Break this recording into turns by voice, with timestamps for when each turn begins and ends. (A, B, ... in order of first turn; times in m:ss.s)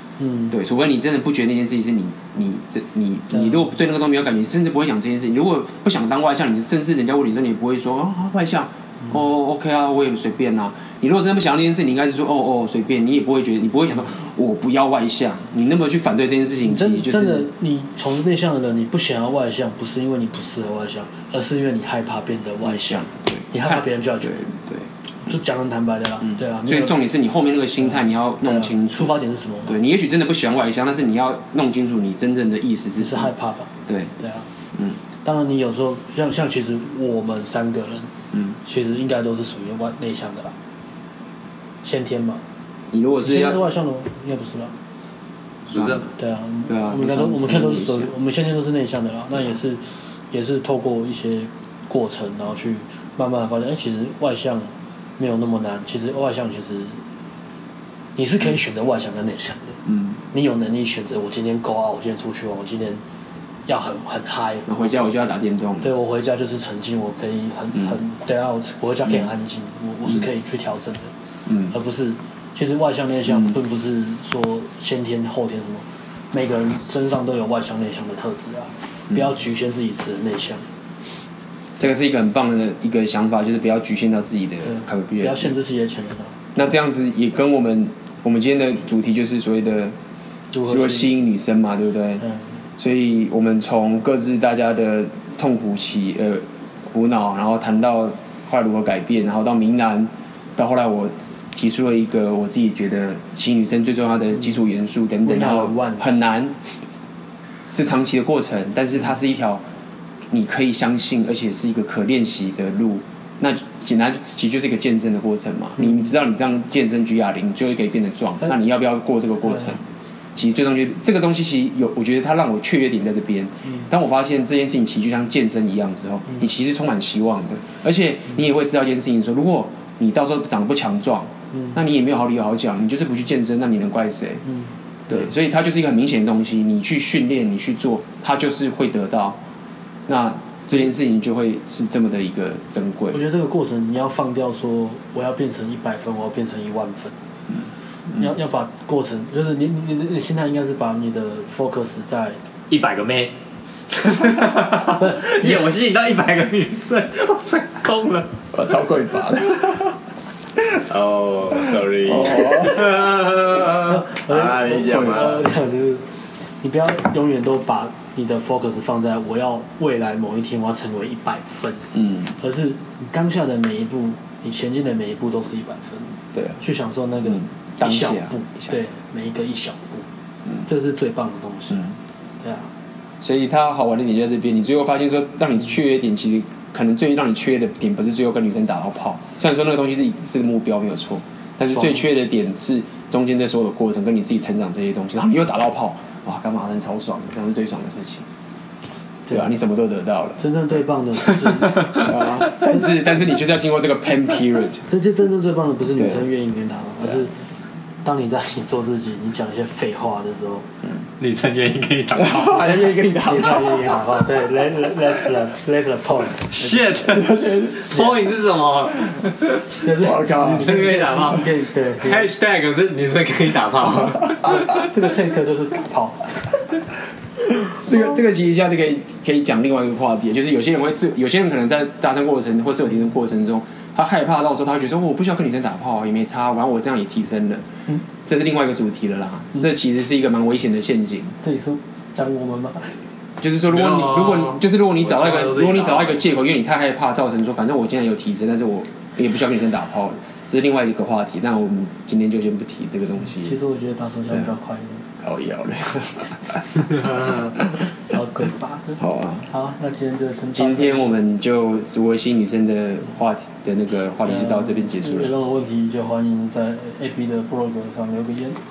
0:00.2-0:00.5 A
0:00.5-0:17.5 B
0:16.6-0:24.4 A
0:22.6-0:24.9 B
0:25.2-0:27.0 A
0:26.3-0:29.1 B
0:28.4-0:29.8 A
0:29.7-0:33.3 B
0:33.0-0:34.4 A
0:33.9-0:34.1 B
0:35.2-0:38.1 A
0:38.6-0:40.5 A
0:41.8-0:42.4 A
0:42.9-0:43.6 B
0:43.2-0:44.7 A
0:45.7-0:46.1 B
0:45.7-0:46.0 C
0:46.2-0:57.0 A
0:46.7-0:48.1 B
0:58.2-0:59.8 A
0:59.9-1:00.1 B
1:00.3-1:03.0 A
1:03.7-1:05.0 A
1:04.6-1:05.9 B
1:05.8-1:11.1 A
1:11.5-1:11.7 B
1:11.7-1:20.6 A
1:21.8-1:25.5 B
1:24.6-1:26.6 A
1:26.6-1:30.0 B
1:30.5-1:31.2 A
1:30.6-1:32.2 B
1:32.8-1:46.6 B
1:45.2-1:46.1 A
1:47.7-1:49.6 B
1:50.3-1:59.8 B
2:00.4-2:14.4 B
2:15.1-2:19.4 B
2:20.1-2:23.2 B
2:23.1-2:27.1 A
2:28.1-2:32.4 A
2:32.7-2:33.3 C
2:33.9-2:38.3 C
2:35.0-2:35.5 A
2:38.5-2:39.9 B
2:40.7-2:45.5 C
2:42.0-2:43.0 B
2:43.6-2:46.0 A
2:44.8-2:45.4 B
2:46.6-3:00.0 A
2:51.9-2:52.3 B
2:57.8-2:58.7 B
3:00.6-3:01.8 A
3:02.4-3:02.7 A
3:03.2-3:18.2 B
3:11.7-3:12.0 A
3:19.3-3:20.4 B
3:20.4-3:22.9 A
3:21.9-3:24.8 B
3:24.9-3:27.3 A
3:28.0-3:30.6 A
3:31.2-3:32.9 C
3:32.2-3:34.0 B
3:32.5-3:37.2 A
3:36.5-3:39.9 C
3:37.1-3:38.1 B
3:39.8-3:42.3 A
3:39.9-3:40.8 B
3:40.6-3:44.4 C
3:44.4-3:46.6 A
3:47.5-3:57.6 B
3:58.2-4:01.4 B
4:01.4-4:03.0 A
4:03.4-4:13.6 B
4:03.7-4:06.2 C
4:13.4-4:15.0 A
4:15.2-4:17.8 B
4:18.0-4:21.2 A
4:19.0-4:19.5 B
4:20.5-4:25.3 B
4:24.2-4:28.6 A